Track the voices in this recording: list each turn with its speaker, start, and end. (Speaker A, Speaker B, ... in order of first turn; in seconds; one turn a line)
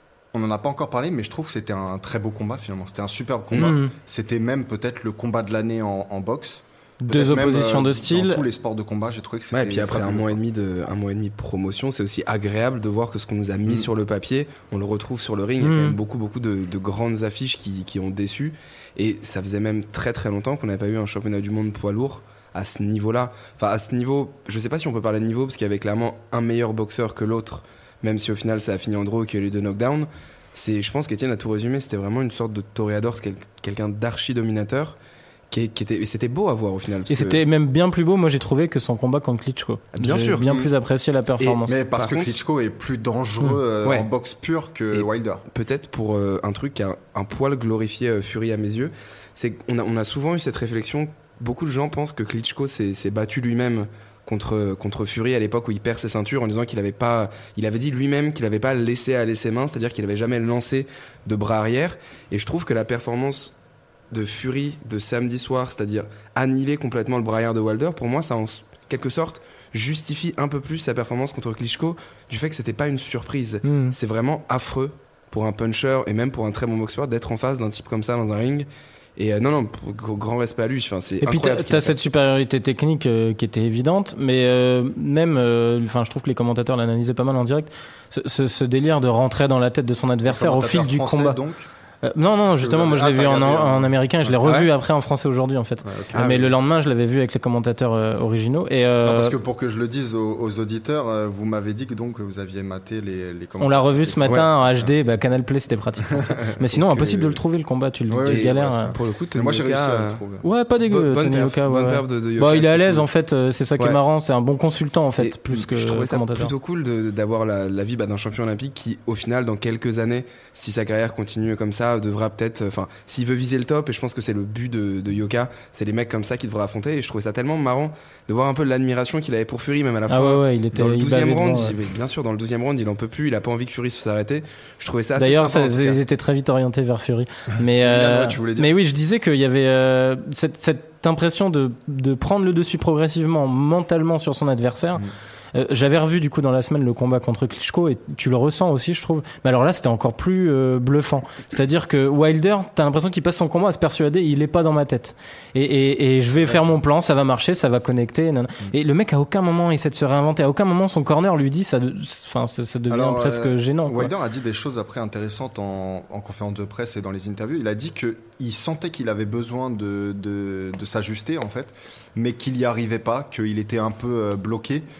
Speaker A: 0.3-10.4
Speaker B: 3.6-3.9
Speaker B: 7.0-8.4
Speaker C: 9.5-35.0
Speaker B: 15.6-16.0
Speaker C: 35.5-37.4
Speaker B: 37.1-41.7
Speaker C: 40.0-40.5
Speaker C: 41.4-42.4
Speaker A: 41.7-45.4
Speaker C: 44.9-63.5
Speaker C: 64.1-82.0
Speaker B: 73.7-74.0
Speaker B: 81.2-91.4
Speaker A: 90.3-91.7
Speaker B: 92.0-99.3
Speaker A: 92.5-94.4
Speaker C: 94.4-94.7
Speaker A: 95.8-96.3
Speaker C: 96.1-96.5
Speaker A: 99.0-104.9
Speaker B: 103.6-108.9
Speaker A: 106.1-107.4
Speaker A: 108.1-110.5
Speaker C: 108.3-110.2
Speaker B: 110.4-116.5
Speaker C: 110.9-113.1
Speaker C: 115.2-136.0
Speaker B: 130.1-131.8
Speaker B: 135.2-164.1
Speaker A: 137.7-138.7
Speaker A: 162.9-174.8